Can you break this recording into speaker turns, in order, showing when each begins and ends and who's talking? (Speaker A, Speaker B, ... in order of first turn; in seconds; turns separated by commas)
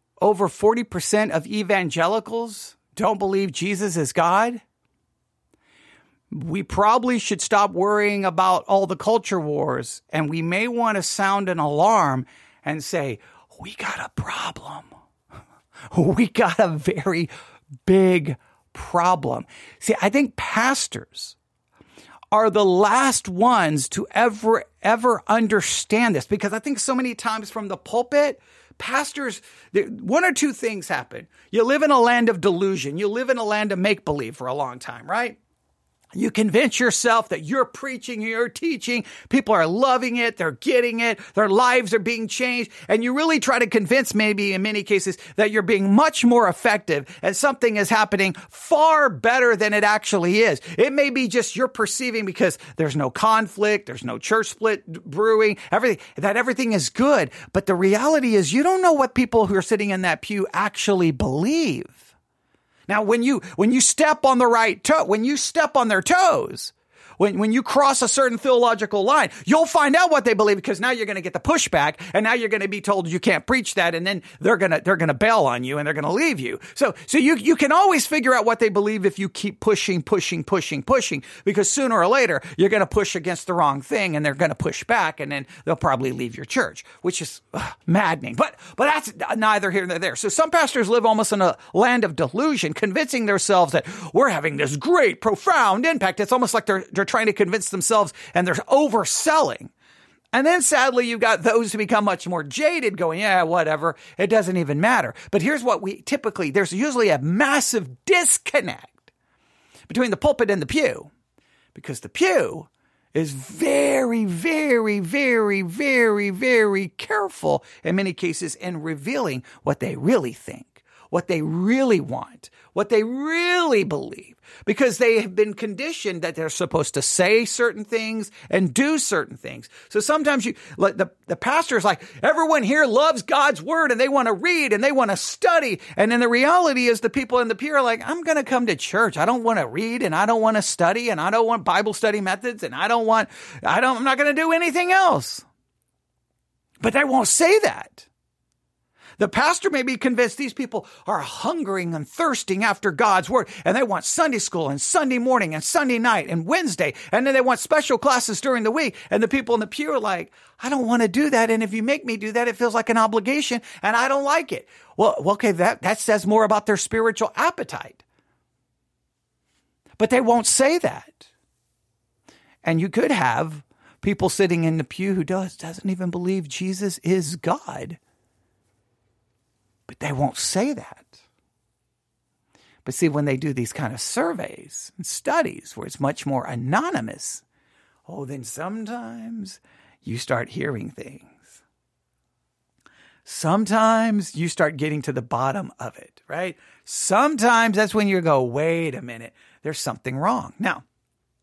Speaker A: 0.2-4.6, Speaker A: 6.3-14.9, Speaker A: 15.9-17.3, Speaker A: 17.8-21.3, Speaker A: 22.3-35.4, Speaker A: 36.1-62.1, Speaker A: 62.9-99.7, Speaker A: 100.3-109.1, Speaker A: 109.9-111.1, Speaker A: 111.7-145.4, Speaker A: 146.8-148.1, Speaker A: 149.2-168.0, Speaker A: 170.0-171.3, Speaker A: 172.6-178.0, Speaker A: 179.9-181.2, Speaker A: 182.8-187.4, Speaker A: 188.1-191.6, Speaker A: 193.2-200.8